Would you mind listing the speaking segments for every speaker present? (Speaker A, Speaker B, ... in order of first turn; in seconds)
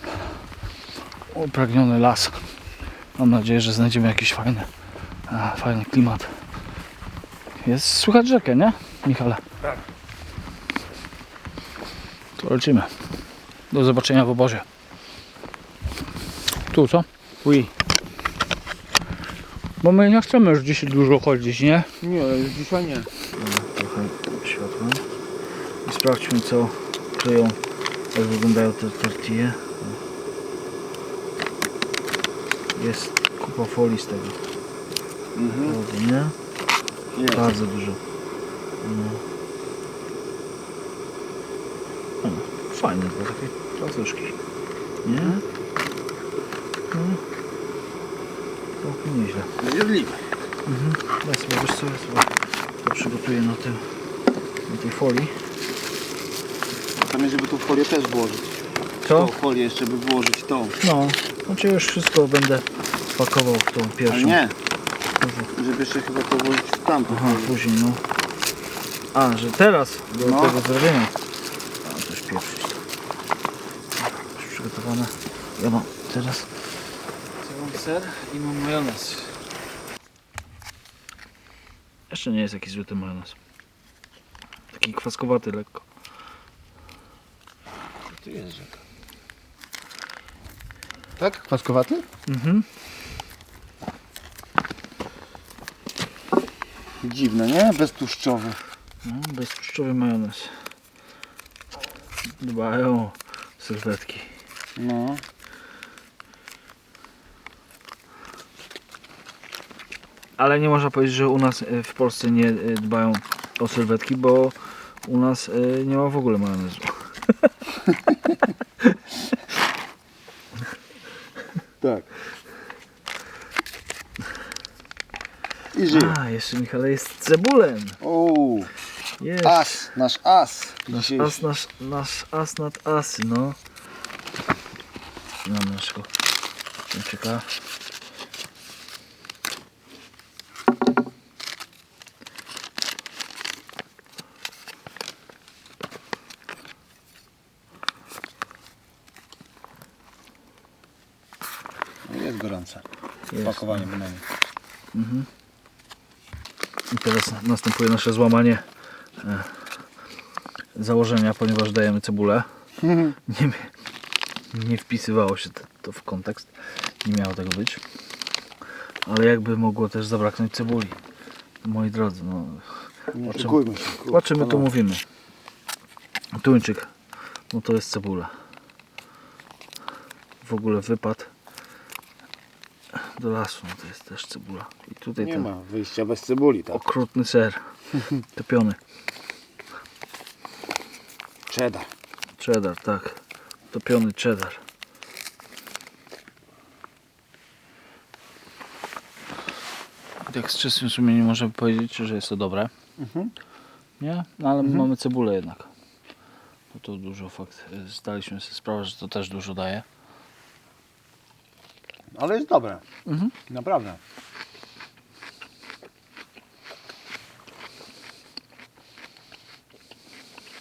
Speaker A: 1.3-2.4, 3.2-4.7, 5.3-6.3, 7.6-9.4, 12.4-12.9, 13.7-14.7, 16.7-17.7, 19.8-21.9, 23.3-25.0, 25.8-27.6, 28.1-30.0, 32.8-34.4, 35.6-36.3, 37.3-38.0, 38.8-39.2, 42.2-44.4, 45.0-45.4, 46.9-47.2, 48.8-49.5, 50.7-53.9, 54.7-55.3, 59.0-59.3, 60.8-64.4, 65.2-65.5, 67.1-68.0, 69.1-71.2, 71.8-72.8, 74.0-76.5, 77.4-79.4, 82.1-83.4, 84.7-85.8, 92.3-92.7, 99.0-100.6, 102.4-104.3, 110.4-119.0, 125.9-128.0, 129.2-129.9, 130.9-133.6, 135.4-136.1, 136.9-137.5, 153.3-153.9, 154.9-155.3, 156.9-158.6, 159.2-159.7, 160.8-162.5, 163.3-163.7, 164.5-167.8, 169.1-171.0, 171.6-175.0, 176.3-176.9, 177.5-178.3, 180.4-181.3, 182.9-185.5, 186.7-188.8, 192.4-193.2, 193.7-194.6, 200.3-202.7, 204.0-205.7, 206.7-209.8, 213.1-213.4
Speaker B: 22.0-23.1, 35.4-35.8, 37.1-37.5, 45.1-45.4, 49.6-50.2, 57.0-60.8, 64.1-64.5, 65.5-67.5, 70.2-70.6, 88.2-88.7, 91.2-92.0, 97.0-98.6, 104.8-105.2, 121.8-122.1, 125.7-126.2, 128.0-128.7, 129.4-131.4, 152.1-152.8, 153.4-154.2, 162.8-163.2, 173.1-174.7, 185.2-186.8, 191.5-191.9, 203.0-203.3, 212.2-212.8, 213.5-214.0